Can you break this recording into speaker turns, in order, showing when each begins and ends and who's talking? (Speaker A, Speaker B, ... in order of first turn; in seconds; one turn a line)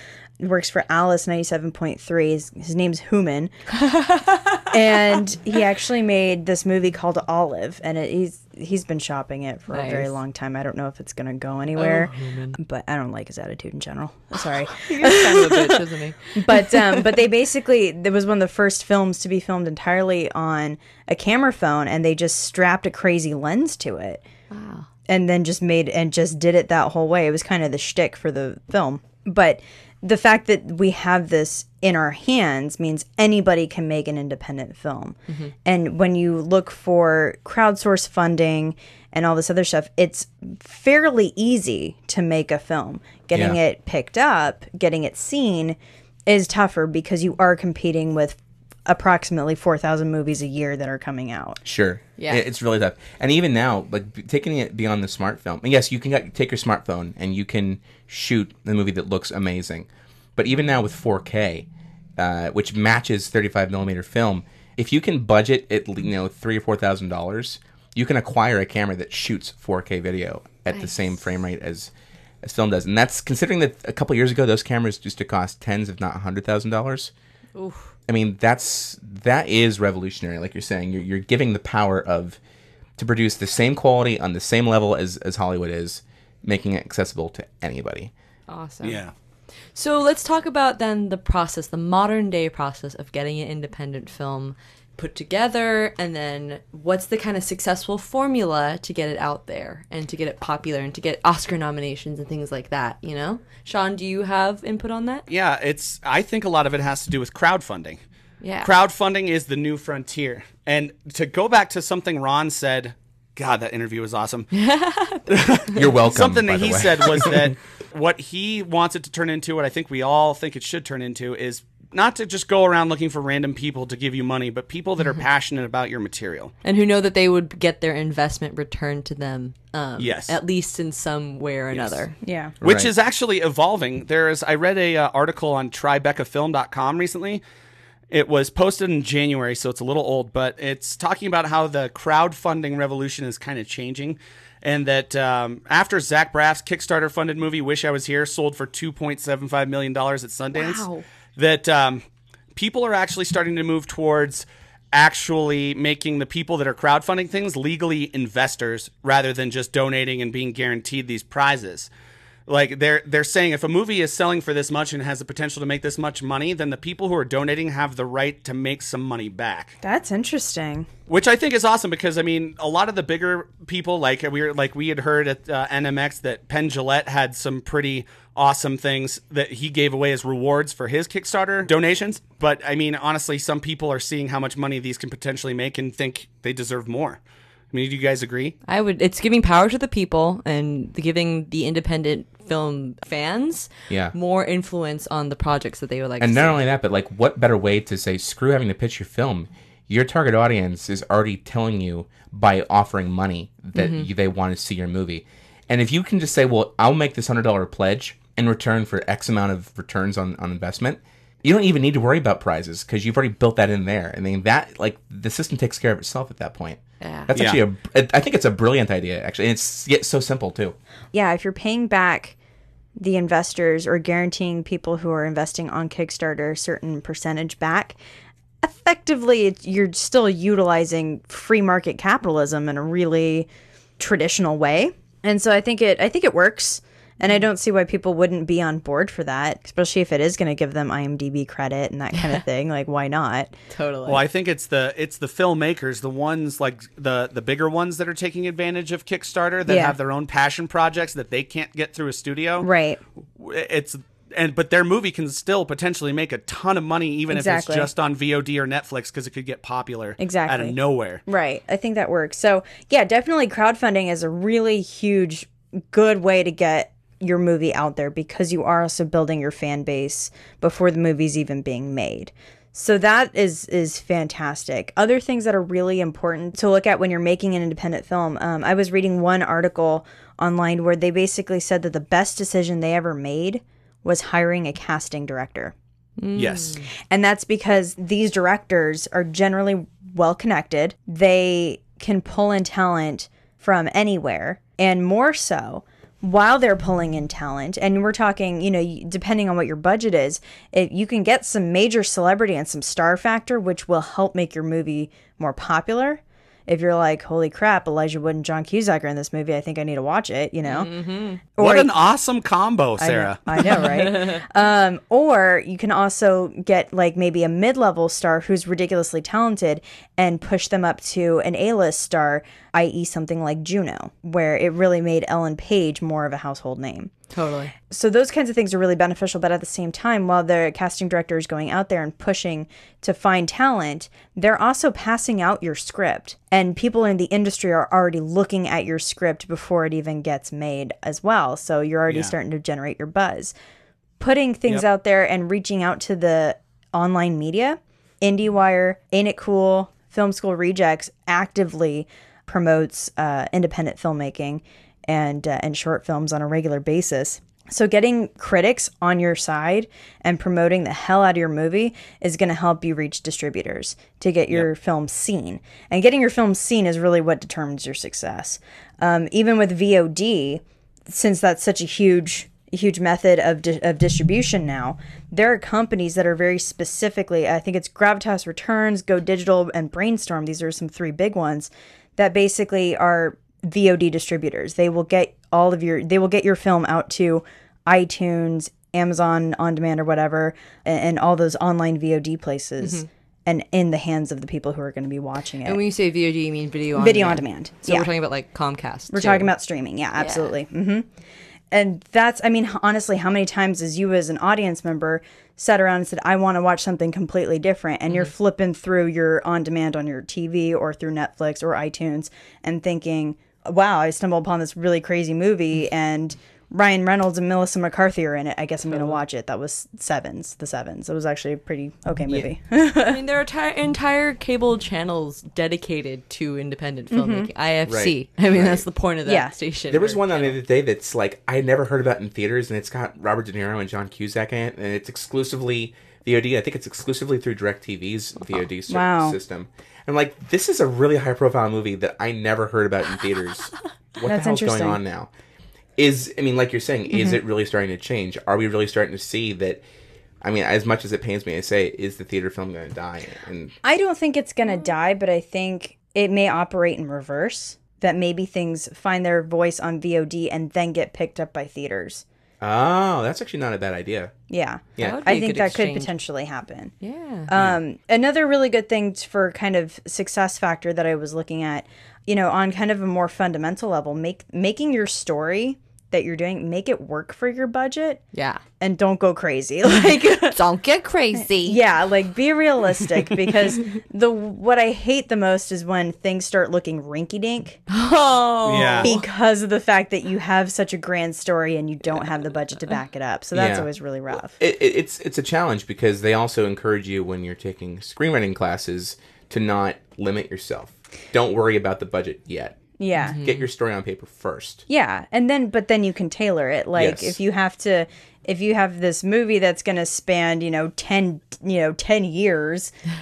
Speaker A: 0.4-3.5
Speaker B: 3.8-4.6
Speaker A: 4.7-24.2
Speaker B: 9.7-10.1
Speaker B: 11.8-12.6
Speaker B: 14.7-17.1
Speaker B: 24.5-24.9
Speaker A: 25.1-51.6
Speaker C: 43.3-43.6
Speaker C: 51.6-71.9
Speaker B: 52.2-52.4
Speaker C: 72.4-77.1
Speaker B: 77.6-77.9
Speaker C: 78.1-82.4
Speaker C: 83.0-88.1
Speaker B: 88.5-89.0
Speaker D: 88.8-89.1
Speaker B: 89.7-105.2
Speaker D: 105.3-108.0
Speaker B: 108.4-108.7
Speaker D: 108.6-114.5
Speaker B: 114.5-115.8
Speaker D: 115.3-126.5
Speaker C: 115.7-117.5
Speaker B: 126.6-132.2
Speaker D: 130.0-130.3
Speaker D: 131.7-132.0
Speaker A: 132.2-132.5
Speaker C: 132.6-132.9
Speaker D: 132.6-137.4
Speaker D: 138.1-150.8
Speaker B: 150.5-151.0
Speaker D: 151.4-152.0
Speaker D: 152.6-161.9
Speaker D: 162.5-169.8
Speaker A: 169.8-170.9
Speaker D: 171.1-187.2
Speaker D: 187.7-188.6
Speaker B: 188.7-196.6
Speaker C: 193.9-194.1
Speaker C: 196.2-220.8
Speaker B: 203.8-204.1
Speaker B: 217.0-217.3
Speaker D: 217.3-217.6
Speaker A: 221.1-222.4
Speaker A: 223.0-228.0
Speaker A: 228.6-243.6
Speaker B: 243.7-244.2
Speaker D: 244.1-252.7
Speaker A: 249.7-250.0
Speaker A: 252.6-253.0
Speaker D: 253.4-261.2
Speaker A: 257.3-257.9
Speaker A: 260.2-260.8
Speaker A: 261.3-285.7
Speaker B: 286.2-286.9
Speaker D: 286.4-286.8
Speaker A: 287.1-310.9
Speaker B: 310.6-311.4
Speaker A: 311.6-311.9
Speaker D: 311.6-313.4
Speaker A: 313.0-327.1
Speaker B: 313.6-314.4
Speaker B: 327.3-327.7
Speaker A: 327.9-343.6
Speaker D: 342.1-342.4
Speaker A: 344.2-395.8
Speaker B: 392.8-393.1
Speaker B: 395.6-399.5
Speaker A: 397.0-398.1
Speaker A: 399.1-401.1
Speaker B: 400.2-400.5
Speaker A: 401.7-423.2
Speaker B: 418.9-419.2
Speaker B: 423.0-430.5
Speaker A: 427.1-427.5
Speaker C: 427.9-428.9
Speaker A: 429.3-429.6
Speaker C: 429.9-445.3
Speaker A: 438.9-439.4
Speaker A: 444.2-445.0
Speaker C: 446.0-449.8
Speaker C: 450.4-453.8
Speaker A: 453.8-462.2
Speaker C: 462.6-464.3
Speaker A: 464.5-466.9
Speaker C: 465.0-465.2
Speaker B: 465.0-466.1
Speaker B: 467.0-467.5
Speaker A: 467.5-478.2
Speaker C: 467.5-467.8
Speaker B: 478.3-478.6
Speaker A: 478.8-480.6
Speaker B: 479.9-481.8
Speaker A: 481.4-487.8
Speaker B: 483.3-483.6
Speaker B: 487.9-489.3
Speaker D: 488.7-489.1
Speaker A: 489.0-494.6
Speaker C: 493.5-502.9
Speaker A: 503.0-503.4
Speaker B: 503.2-503.6
Speaker C: 503.4-504.8
Speaker A: 504.9-512.9
Speaker C: 506.9-507.4